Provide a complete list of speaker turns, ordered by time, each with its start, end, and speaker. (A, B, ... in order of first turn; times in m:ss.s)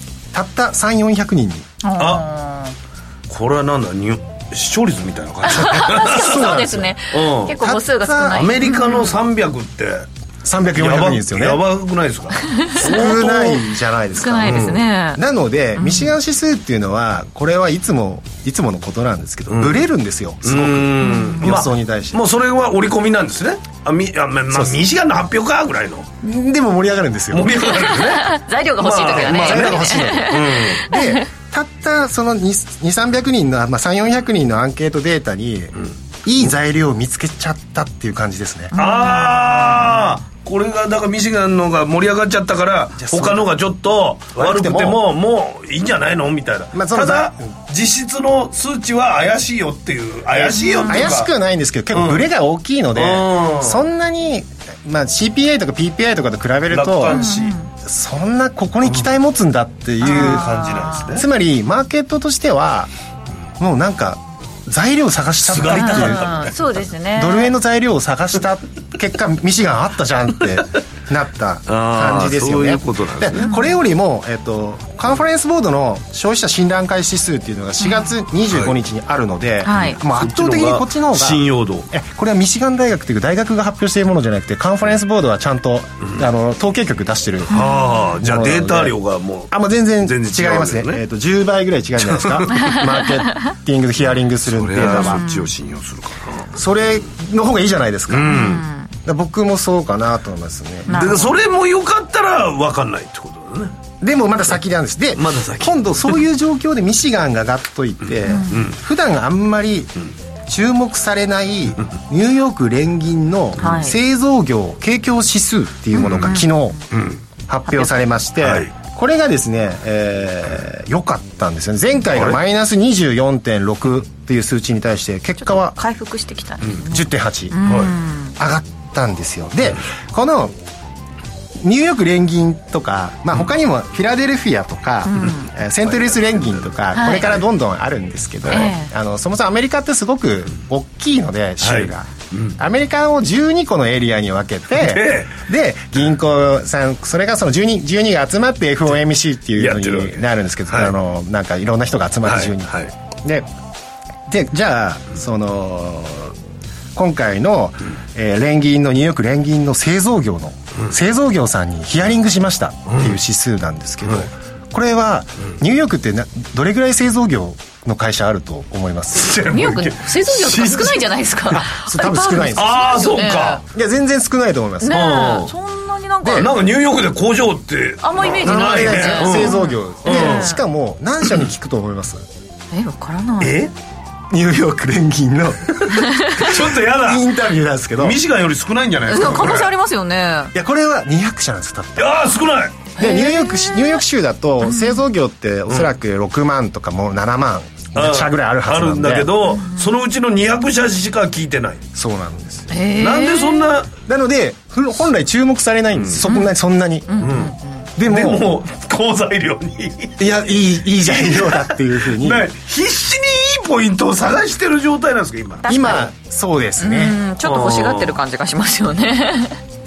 0:00.3-0:01.7 A
0:01.8-0:02.7 B
0:02.0-0:02.3 C
0:03.3-0:06.5 C
0:05.5-0:09.2 B
0:05.8-0:06.9 A
0:07.1-0:07.6 C
0:07.5-0:08.5 A
0:08.3-0:10.1 C
0:10.4-0:11.6 A
0:10.8-0:13.7 C
0:12.4-0:13.1 B
0:12.8-0:22.3 A
0:14.2-0:15.2 B
0:14.4-0:14.8 C
0:15.8-0:16.1 B
0:19.5-0:19.8 C
0:20.4-0:26.1 C
0:21.0-0:21.4 B
0:24.5-0:24.8 A
0:26.2-0:28.0 A
0:27.3-0:30.9 C
0:27.8-0:31.2 B
0:29.2-0:35.7 A
0:36.2-0:38.7 A
0:38.7-0:40.2 B
0:38.8-0:51.3 C
0:43.0-0:43.5 A
0:44.4-0:45.0 A
0:46.7-0:47.4 A
0:50.4-0:57.2 A
0:50.5-0:51.1 B
0:51.9-0:52.3 C
0:53.0-0:53.8 C
0:56.7-0:57.6 C
0:57.1-0:57.7 B
0:57.8-1:00.6 A
1:00.0-1:01.1 B
1:00.0-1:01.2 C
1:01.1-1:02.9 A
1:03.6-1:06.5 A
1:05.4-1:06.5 C
1:05.7-1:07.5 B
1:07.1-1:27.6 A
1:11.7-1:13.4 C
1:13.4-1:13.7 B
1:17.8-1:18.1 B
1:19.6-1:20.0 B
1:20.2-1:21.9 C
1:27.5-1:28.2 B
1:27.5-1:31.0 C
1:28.2-1:29.0 A
1:29.5-1:35.2 A
1:32.0-1:32.8 C
1:34.4-1:36.6 C
1:34.9-1:35.5 B
1:36.5-1:38.5 A
1:38.1-1:38.6 C
1:38.3-1:38.9 B
1:39.0-1:41.2 A
1:40.9-1:41.4 B
1:40.9-1:43.8 C
1:44.0-1:50.0 A
1:45.2-1:46.0 C
1:48.3-1:48.6 B
1:48.5-1:48.8 C
1:50.5-1:56.8 A
1:53.6-1:54.0 B
1:56.0-1:56.5 B
1:56.0-1:56.4 C
1:56.9-1:57.2 C
1:57.5-2:05.8 A
1:57.7-1:57.9 B
1:58.4-1:58.7 C
2:05.4-2:08.4 B
2:06.8-2:07.6 A
2:07.6-2:07.9 C
2:08.4-2:10.5 A
2:11.6-2:33.5 A
2:15.1-2:15.5 B
2:15.9-2:16.7 C
2:16.9-2:17.3 B
2:18.5-2:18.9 B
2:21.6-2:22.6 C
2:24.7-2:25.4 C
2:29.6-2:30.9 C
2:32.3-2:32.9 C
2:34.3-2:36.4 A
2:37.0-2:49.8 A
2:42.9-2:43.2 C
2:49.2-2:51.1 C
2:49.5-2:53.6 B
2:51.7-2:55.1 A
2:52.5-2:53.6 C
2:54.8-2:56.5 B
2:54.9-2:55.5 C
2:56.2-2:56.5 A
2:56.3-3:00.5 C
2:58.0-3:00.6 B
2:58.2-3:02.3 A
3:02.7-3:03.6 B
3:03.4-3:03.7 C
3:04.3-3:08.2 A
3:06.1-3:06.5 B
3:06.4-3:07.3 C
3:08.0-3:09.7 C
3:09.1-3:10.5 B
3:10.5-3:12.2 A
3:12.0-3:12.9 C
3:13.0-3:14.0 B
3:13.0-3:19.3 A
3:14.6-3:15.0 B
3:18.0-3:21.8 C
3:19.4-3:19.9 B
3:22.0-3:22.7 A
3:22.7-3:23.7 B
3:23.0-3:23.9 C
3:24.0-3:27.4 A
3:26.0-3:26.2 C
3:27.1-3:27.8 B
3:27.2-3:27.5 C
3:28.0-3:28.6 A
3:28.1-3:30.4 C
3:30.2-3:32.5 A
3:31.0-3:36.0 C
3:35.6-3:36.1 B
3:35.7-3:37.2 A
3:36.8-3:39.6 B
3:37.4-3:38.2 C